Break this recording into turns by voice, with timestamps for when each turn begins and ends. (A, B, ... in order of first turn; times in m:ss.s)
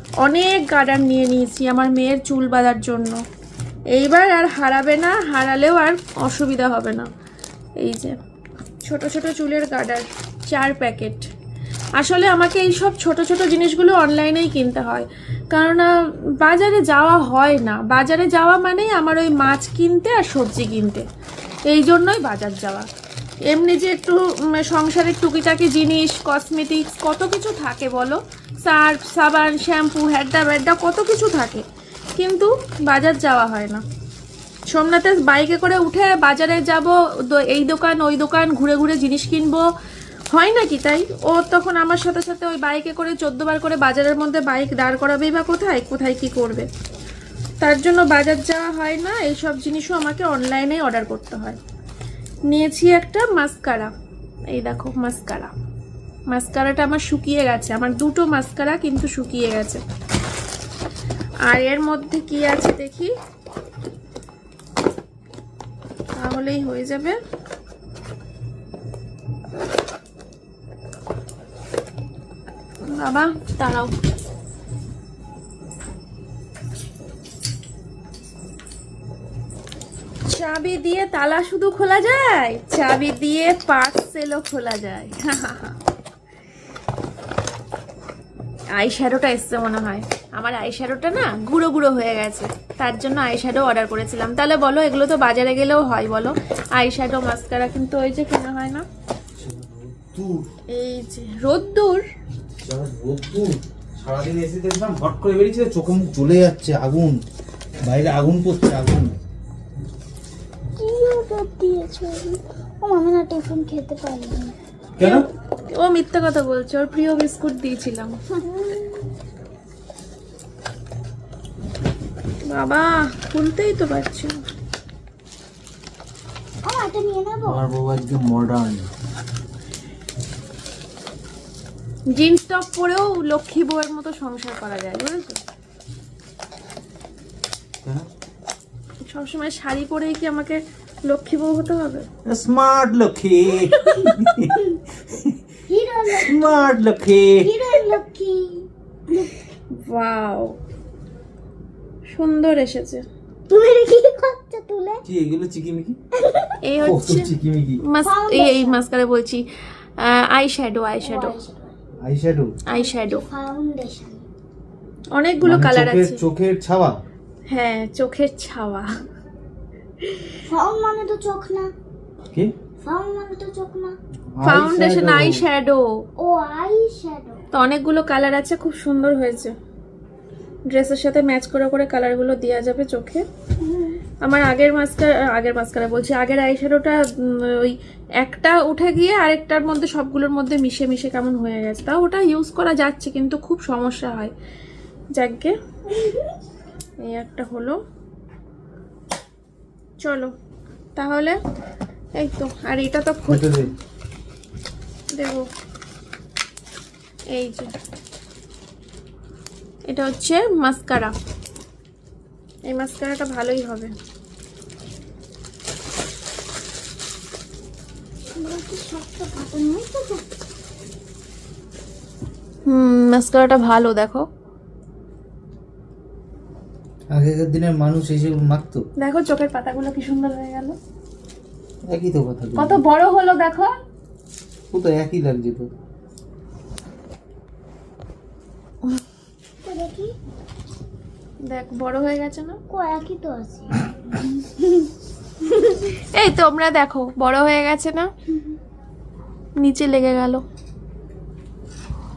0:00.2-0:03.2 A
0:03.9-0:07.1 A
0:07.8-0:08.2 A
0:08.8-0:11.3 A
0:12.0-0:15.9 A
0:16.4-0:21.0 A
0:21.7-0:22.9 A
0:23.5-0:31.6 A
0:32.2-0:33.8 A
0:34.7-0:39.7 A
0:40.3-0:46.7 A
0:47.6-0:51.6 A
0:52.5-0:53.9 A
0:54.5-0:55.5 A
0:56.3-0:59.8 A
1:01.4-1:03.1 A
1:06.2-1:07.2 A
1:12.9-1:13.9 A
1:20.2-1:25.8 A
1:28.7-1:38.8 A
1:39.4-1:40.5 B
1:40.7-1:42.1 A
1:42.6-1:47.2 B
1:47.8-1:49.1 B
1:50.8-1:54.5 C
1:55.0-1:55.2 B
1:55.0-1:58.2 A
1:58.4-1:59.1 C
2:02.4-2:04.4 A
2:06.6-2:07.6 C
2:07.4-2:08.9 B
2:12.1-2:15.4 A
2:19.1-2:22.1 A
2:22.2-2:25.4 B
2:23.8-2:24.8 C
2:25.7-2:26.7 C
2:26.1-2:27.6 B
2:27.4-2:29.4 C
2:29.7-2:30.6 A
2:32.1-2:33.0 A
2:33.5-2:35.0 C
2:35.0-2:36.0 B
2:36.2-2:36.5 C
2:36.6-2:37.3 A
2:36.8-2:37.8 B
2:37.8-2:39.4 A
2:38.0-2:38.8 C
2:40.0-2:41.4 A
2:41.0-2:41.8 C
2:42.0-2:42.5 B
2:42.7-2:43.2 A
2:42.7-2:44.2 C
2:45.1-2:46.2 A
2:45.4-2:47.0 B
2:47.5-2:48.9 A
2:50.0-2:50.3 A
2:50.5-2:51.7 C
2:52.8-2:54.0 C
2:54.4-2:55.4 B
2:54.4-2:56.0 A
2:56.2-2:57.4 C
2:57.5-2:59.5 A
3:00.7-3:03.2 A
3:03.7-3:04.0 C
3:04.2-3:14.3 A
3:15.1-3:15.5 A
3:17.0-3:17.8 A
3:20.0-3:20.3 A
3:21.0-3:21.4 A
3:22.2-3:23.6 A
3:23.3-3:23.7 B
3:25.1-3:25.5 A
3:27.3-3:27.7 A
3:29.9-3:31.1 A
3:32.7-3:33.9 A
3:38.4-3:40.3 C
3:42.7-3:44.3 A
3:47.1-3:48.8 B
3:49.0-3:50.8 A
3:51.9-3:52.8 B
3:52.6-3:53.7 A
3:54.7-3:55.7 B
3:59.6-4:00.1 C
4:01.5-4:02.6 A
4:02.7-4:04.9 C
4:05.6-4:08.1 A
4:09.6-4:10.4 A